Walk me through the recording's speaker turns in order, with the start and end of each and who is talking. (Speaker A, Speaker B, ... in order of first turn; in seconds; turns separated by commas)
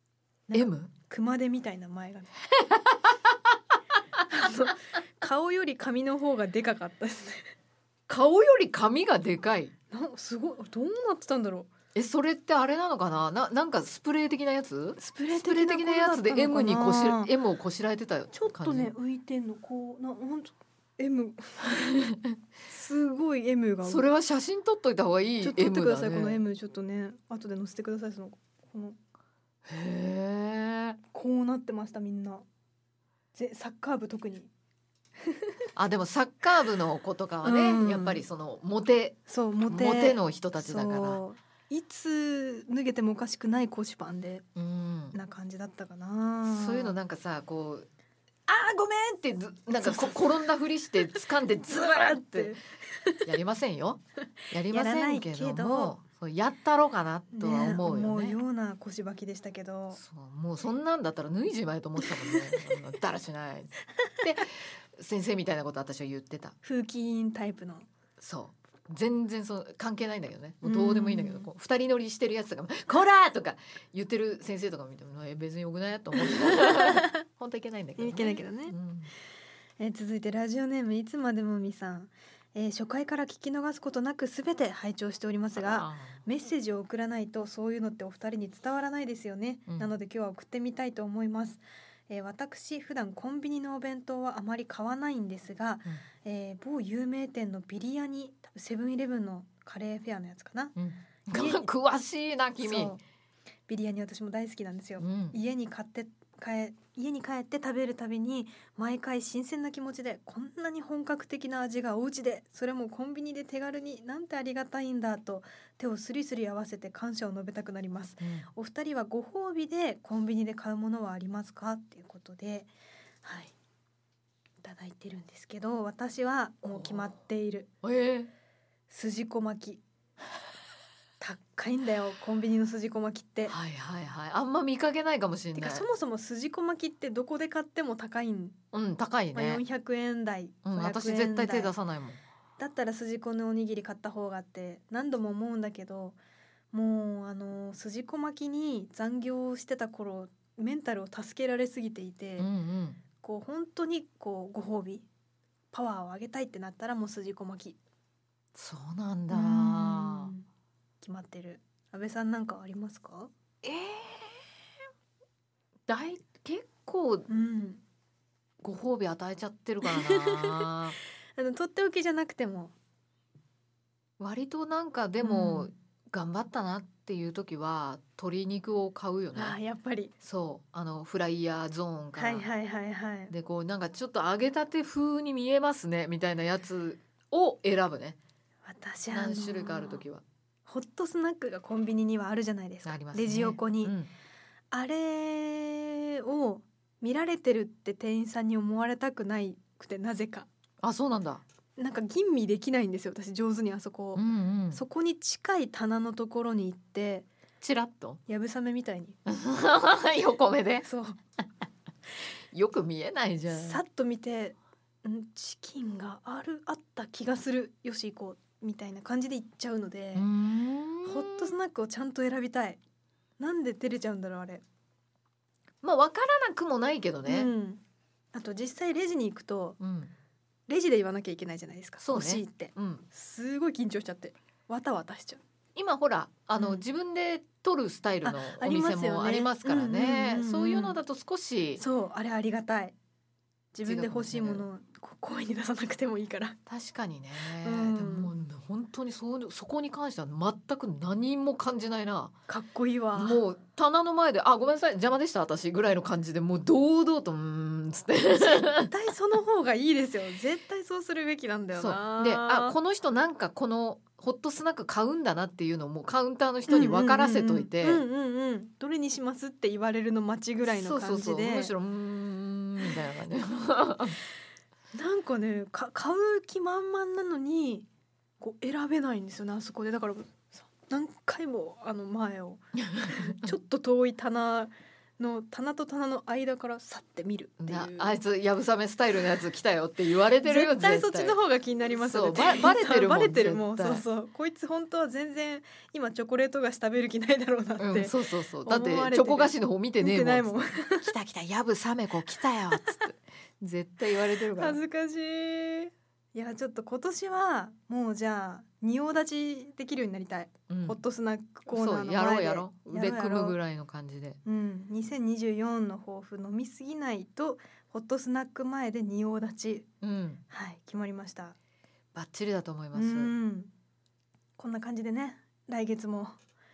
Speaker A: 0.5-2.4, Speaker B: 0.5-0.9, Speaker B: 2.6-3.3, Speaker A: 4.3-7.5, Speaker B: 8.1-9.7, Speaker A: 9.9-11.7, Speaker B: 11.9-18.9, Speaker A: 15.0-17.3, Speaker A: 18.3-21.8, Speaker B: 21.7-22.3, Speaker A: 22.7-24.1, Speaker B: 23.8-26.4, Speaker A: 25.4-29.0, Speaker B: 29.7-31.0, Speaker A: 31.1-32.5, Speaker A: 33.4-34.5, Speaker B: 35.8-41.2, Speaker A: 37.4-38.2, Speaker A: 39.3-44.5, Speaker B: 44.5-45.2, Speaker A: 45.1-47.0, Speaker B: 46.5-47.9, Speaker B: 48.5-52.6, Speaker A: 49.8-50.5, Speaker A: 51.1-53.3, Speaker B: 53.2-58.4, Speaker A: 54.7-56.0, Speaker A: 57.3-60.0, Speaker B: 59.9-66.6, Speaker A: 62.1-62.8, Speaker A: 66.6-67.9, Speaker B: 68.2-79.1, Speaker A: 70.6-71.5, Speaker A: 76.4-77.0, Speaker A: 78.0-78.8, Speaker A: 79.8-100.8, Speaker B: 85.7-86.2, Speaker B: 100.8-103.0, Speaker A: 101.3-101.7, Speaker A: 102.6-103.0, Speaker A: 103.7-122.7, Speaker B: 105.0-105.4, Speaker B: 118.2-118.5, Speaker A: 123.2-123.5, Speaker A: 124.6-127.7, Speaker B: 126.7-127.1, Speaker B: 127.8-128.3, Speaker A: 128.9-129.8, Speaker A: 131.2-133.6, Speaker B: 133.4-135.9, Speaker A: 135.6-138.6, Speaker B: 138.7-139.6, Speaker A: 139.3-141.7, Speaker B: 140.6-142.2, Speaker A: 142.6-146.2, Speaker A: 146.7-152.5, Speaker B: 152.4-153.0, Speaker A: 153.2-155.1, Speaker A: 155.7-157.8, Speaker B: 158.6-160.3, Speaker A: 159.3-160.5, Speaker A: 161.0-163.3, Speaker B: 163.6-164.4, Speaker B: 165.9-167.3, Speaker A: 167.3-167.8, Speaker B: 168.6-171.0, Speaker A: 169.8-170.7, Speaker A: 171.4-172.7, Speaker B: 174.2-179.6, Speaker A: 175.2-175.7, Speaker A: 179.3-180.1, Speaker B: 180.2-182.5, Speaker A: 182.2-183.3, Speaker B: 183.3-188.2, Speaker A: 188.7-190.0, Speaker B: 189.1-190.2, Speaker A: 190.7-193.9, Speaker B: 192.8-194.1, Speaker A: 194.7-200.5, Speaker B: 200.8-201.4, Speaker A: 201.8-207.3, Speaker B: 204.2-204.8, Speaker B: 207.6-208.2, Speaker A: 208.3-209.2, Speaker B: 209.3-210.9, Speaker A: 210.8-211.2, Speaker B: 212.5-213.8, Speaker A: 213.5-220.3, Speaker B: 220.2-221.6, Speaker A: 221.0-222.8, Speaker A: 223.4-224.6, Speaker B: 225.8-227.5, Speaker A: 227.3-227.8, Speaker A: 228.3-229.8, Speaker B: 229.8-230.1, Speaker A: 230.7-235.4, Speaker B: 232.0-233.1, Speaker B: 235.8-241.8, Speaker A: 236.6-236.8, Speaker A: 238.2-241.0, Speaker A: 241.8-243.0, Speaker A: 243.7-246.6, Speaker B: 243.8-244.7, Speaker B: 246.7-252.3, Speaker A: 247.4-248.3, Speaker A: 252.5-253.4, Speaker B: 253.2-258.9, Speaker A: 258.8-262.8, Speaker B: 261.8-268.0, Speaker A: 266.7-271.7, Speaker B: 270.7-274.2, Speaker A: 274.9-277.9, Speaker A: 278.4-288.2, Speaker B: 282.8-283.5, Speaker B: 287.6-291.4, Speaker A: 290.4-301.1, Speaker B: 292.0-294.0, Speaker B: 297.8-304.8, Speaker A: 302.7-303.0, Speaker A: 304.5-313.6, Speaker B: 310.7-311.0, Speaker B: 311.7-314.4, Speaker A: 314.4-319.9, Speaker B: 320.0-320.4, Speaker A: 320.5-321.6, Speaker B: 322.1-323.3, Speaker A: 322.9-323.7, Speaker A: 324.6-326.4